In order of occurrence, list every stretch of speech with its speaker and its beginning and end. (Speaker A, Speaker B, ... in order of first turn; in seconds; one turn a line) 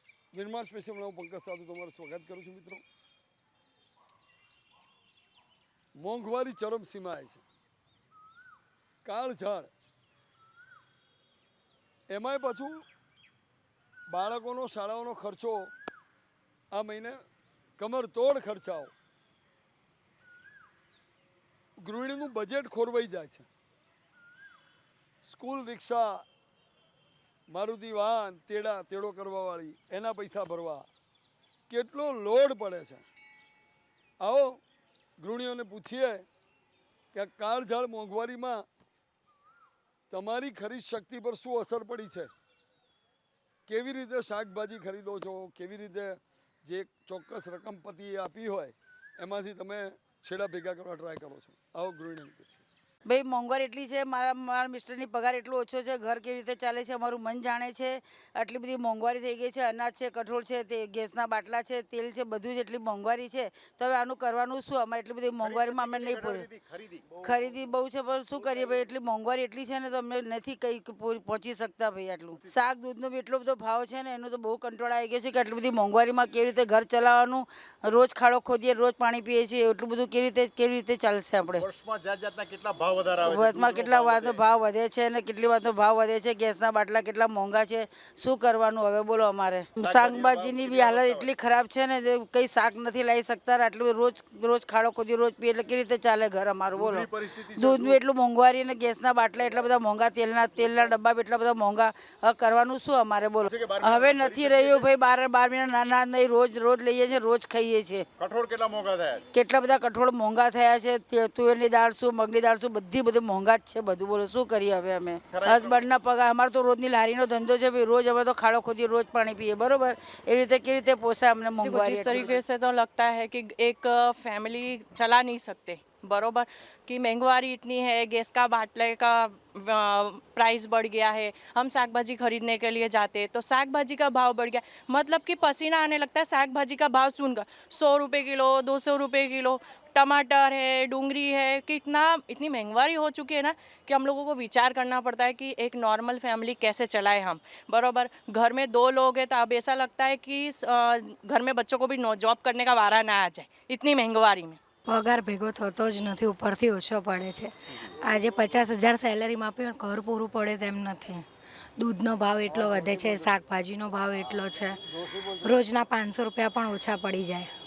Speaker A: 0.3-2.8
Speaker A: 6.0-7.4
Speaker A: 9.0-9.7
Speaker A: 12.1-12.8
Speaker A: 14.1-15.7
Speaker A: 16.7-17.2
Speaker A: 17.8-18.9
Speaker A: 21.8-23.4
Speaker A: 25.2-26.2
Speaker A: 27.5-30.9
Speaker A: 31.7-33.0
Speaker A: 34.2-34.6
Speaker A: 35.2-36.2
Speaker A: 37.1-38.6
Speaker A: 40.1-42.3
Speaker A: 43.7-52.6
Speaker B: 53.0-66.5
Speaker C: 65.4-67.6
Speaker B: 67.2-81.7
Speaker C: 68.3-68.8
Speaker C: 81.6-84.4
Speaker B: 83.2-108.1
Speaker C: 89.8-91.3
Speaker C: 96.7-98.0
Speaker C: 103.5-104.9
Speaker C: 108.2-109.2
Speaker B: 109.3-122.4
Speaker C: 115.3-115.9
Speaker D: 121.6-154.6
Speaker E: 154.9-161.2
Speaker E: 161.8-164.8
Speaker E: 165.4-167.5